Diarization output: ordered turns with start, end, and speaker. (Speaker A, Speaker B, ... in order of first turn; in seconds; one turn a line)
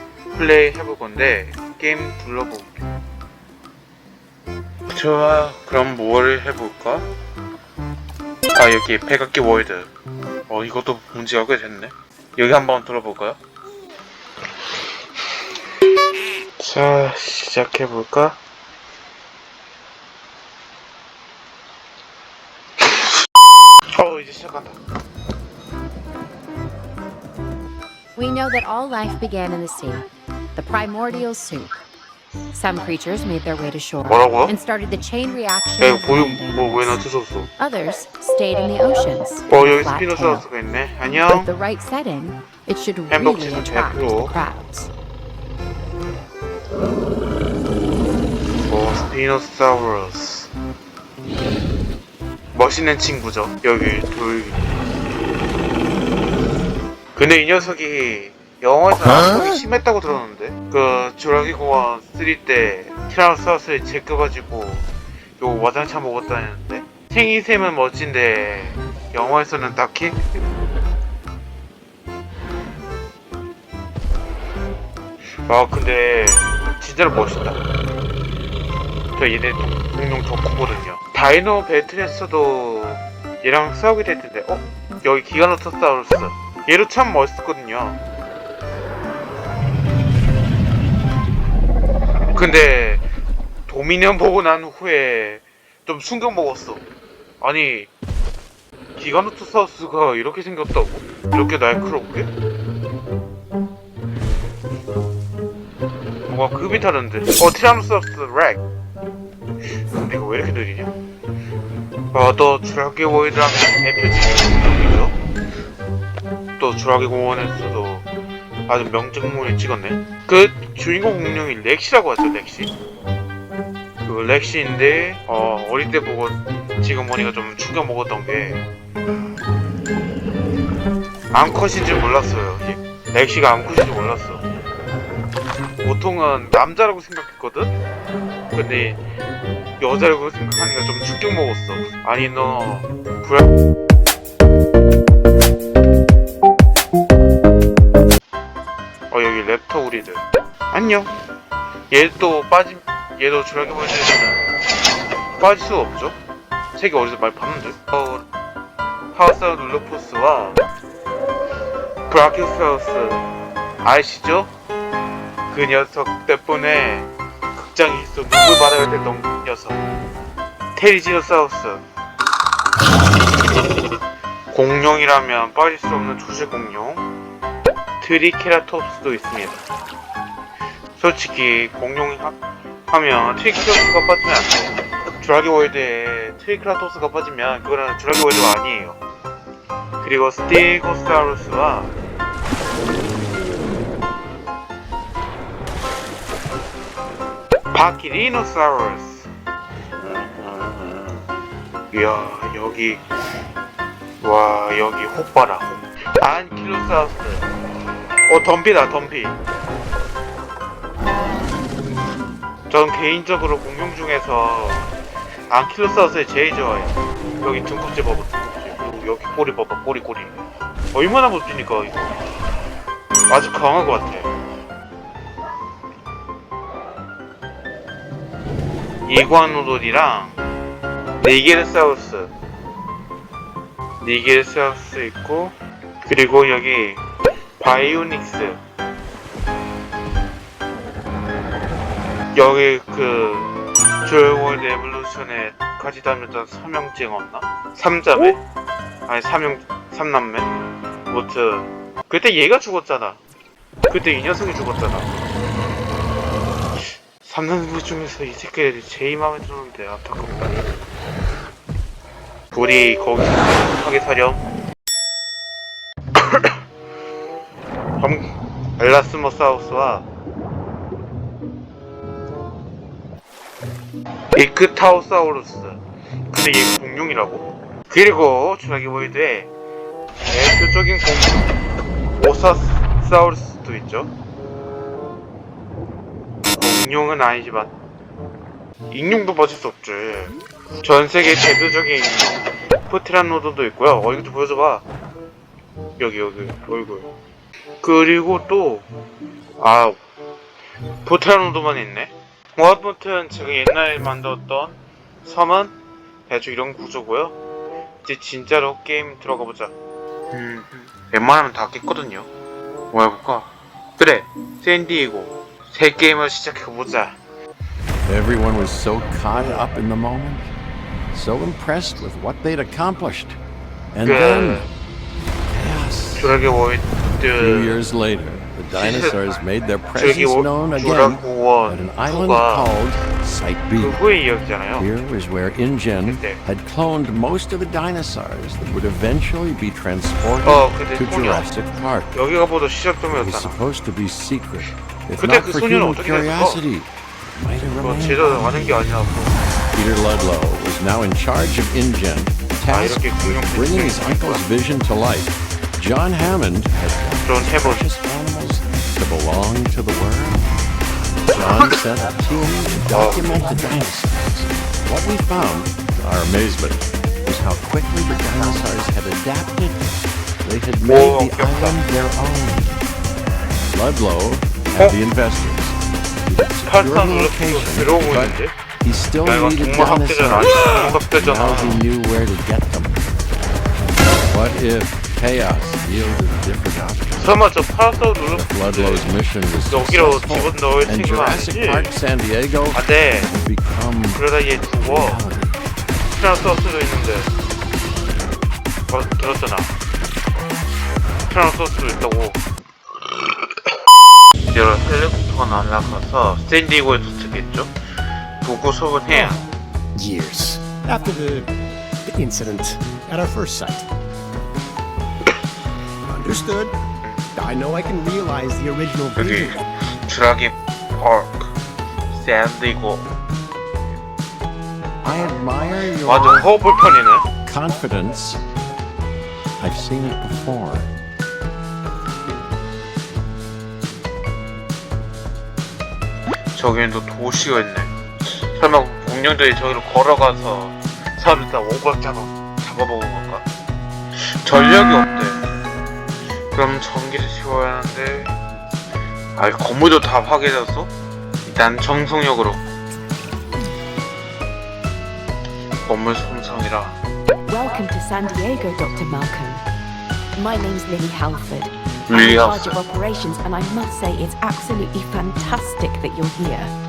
Speaker A: 0.3-2.8
Speaker A: 4.9-7.1
Speaker A: 8.5-9.9
Speaker A: 10.5-13.4
Speaker A: 16.6-18.4
Speaker A: 23.9-24.8
Speaker B: 28.1-31.8
Speaker B: 32.5-37.0
Speaker A: 34.0-34.5
Speaker A: 35.8-37.5
Speaker B: 37.6-40.5
Speaker A: 39.5-41.5
Speaker B: 41.3-44.9
Speaker A: 43.1-44.4
Speaker A: 48.7-50.5
Speaker A: 52.5-54.6
Speaker A: 57.1-64.9
Speaker A: 65.4-70.2
Speaker A: 75.5-77.6
Speaker A: 79.1-88.0
Speaker A: 92.3-93.0
Speaker A: 93.7-96.8
Speaker A: 97.4-97.9
Speaker A: 99.0-102.3
Speaker A: 106.3-108.6
Speaker A: 110.0-110.9
Speaker A: 112.1-115.1
Speaker A: 116.6-118.0
Speaker A: 118.7-122.7
Speaker A: 124.0-128.6
Speaker A: 131.3-134.4
Speaker A: 135.8-137.8
Speaker A: 138.5-139.0
Speaker A: 139.8-143.5
Speaker A: 149.1-151.1
Speaker A: 151.9-154.5
Speaker A: 155.3-156.2
Speaker A: 156.8-158.2
Speaker A: 159.1-160.6
Speaker A: 162.1-163.2
Speaker A: 163.8-164.5
Speaker A: 165.5-169.8
Speaker A: 170.7-171.8
Speaker A: 174.5-177.0
Speaker A: 178.0-179.6
Speaker A: 180.9-182.4
Speaker A: 182.9-189.0
Speaker A: 190.0-191.9
Speaker A: 197.7-199.3
Speaker A: 200.0-201.2
Speaker A: 201.9-203.0
Speaker A: 204.2-207.5
Speaker A: 208.3-209.4
Speaker A: 212.7-214.9
Speaker A: 215.5-220.4
Speaker A: 220.9-222.1
Speaker A: 223.3-224.3
Speaker A: 229.0-230.4
Speaker A: 231.2-232.3
Speaker A: 234.0-237.0
Speaker A: 237.6-238.6
Speaker A: 242.3-248.4
Speaker A: 249.1-253.2
Speaker A: 253.9-255.1
Speaker A: 257.2-260.6
Speaker A: 262.5-264.4
Speaker A: 266.1-266.6
Speaker A: 268.0-270.1
Speaker A: 274.3-279.5
Speaker A: 280.3-281.5
Speaker A: 282.1-284.1
Speaker A: 286.5-287.7
Speaker A: 288.9-294.8
Speaker A: 296.0-297.1
Speaker A: 297.8-298.9
Speaker A: 299.6-300.0
Speaker A: 301.0-305.7
Speaker A: 306.3-307.4
Speaker A: 308.0-309.7
Speaker A: 310.3-312.3
Speaker A: 312.9-317.2
Speaker C: 318.0-320.5
Speaker C: 321.1-323.4
Speaker C: 323.9-324.6
Speaker A: 324.0-324.7
Speaker C: 325.5-326.4
Speaker A: 326.1-327.8
Speaker C: 327.4-334.0
Speaker A: 328.7-332.7
Speaker A: 333.8-334.9
Speaker C: 334.8-342.1
Speaker A: 336.0-336.4
Speaker A: 340.4-341.5
Speaker A: 342.1-343.6
Speaker C: 343.1-348.6
Speaker A: 345.2-346.6
Speaker A: 347.8-349.4
Speaker C: 349.7-360.5
Speaker A: 352.7-354.4
Speaker A: 357.2-357.9
Speaker C: 361.3-369.9
Speaker A: 362.9-363.5
Speaker C: 370.4-372.8
Speaker A: 370.8-371.8
Speaker C: 373.7-383.1
Speaker A: 376.6-378.5
Speaker A: 379.2-381.8
Speaker C: 384.2-387.3
Speaker A: 387.1-389.1
Speaker C: 388.3-394.3
Speaker A: 389.6-391.9
Speaker A: 392.7-393.3
Speaker A: 394.1-395.2
Speaker C: 394.8-395.6
Speaker A: 396.1-397.3
Speaker A: 398.9-399.7
Speaker A: 401.3-402.4
Speaker A: 404.5-407.7
Speaker A: 408.4-409.4
Speaker D: 409.1-409.4
Speaker D: 409.9-411.5
Speaker D: 412.1-413.9
Speaker D: 416.1-416.7
Speaker D: 417.3-419.6
Speaker A: 419.1-421.5
Speaker A: 422.1-423.1
Speaker C: 425.0-426.6
Speaker A: 426.0-427.2
Speaker C: 427.4-428.4
Speaker C: 429.6-430.9
Speaker A: 436.5-443.4
Speaker A: 444.2-445.4
Speaker A: 446.5-448.3
Speaker A: 449.4-450.9
Speaker A: 451.4-452.6
Speaker A: 455.9-457.0
Speaker E: 457.5-459.6
Speaker E: 460.4-466.7
Speaker A: 462.1-462.8